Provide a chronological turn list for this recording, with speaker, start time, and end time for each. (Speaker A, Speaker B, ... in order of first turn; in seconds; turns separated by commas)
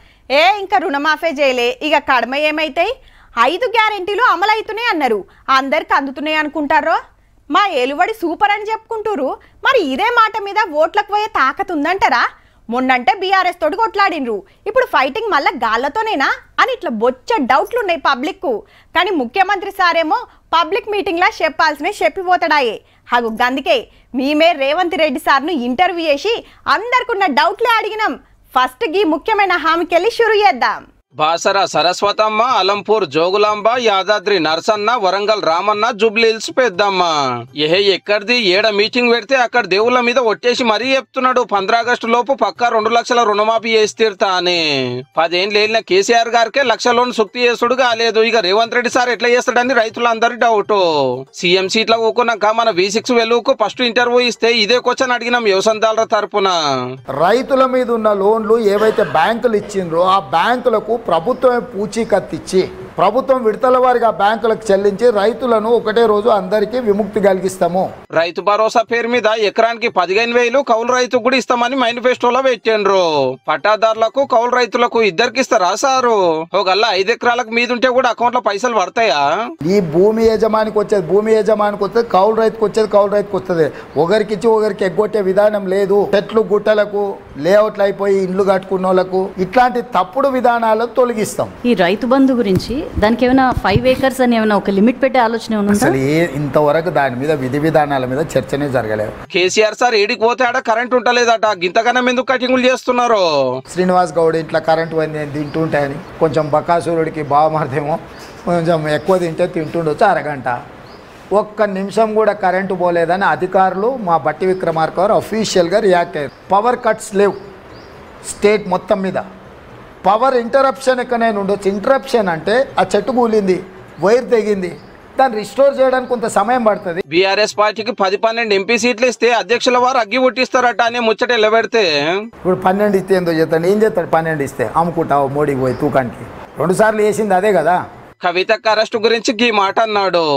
Speaker A: 0.4-2.9, Speaker A: 3.4-7.0, Speaker A: 7.5-12.2, Speaker A: 12.8-30.8, Speaker B: 31.2-37.1, Speaker B: 37.6-44.6, Speaker B: 45.1-50.8, Speaker B: 51.4-56.5, Speaker C: 57.2-67.9, Speaker B: 68.1-79.2, Speaker C: 79.6-91.5, Speaker D: 91.7-96.0, Speaker C: 95.7-99.1, Speaker B: 99.3-103.2, Speaker C: 103.7-110.6, Speaker C: 111.3-117.4, Speaker C: 118.2-119.2, Speaker C: 120.0-127.0, Speaker B: 127.1-131.9, Speaker C: 132.4-137.8, Speaker B: 138.2-140.3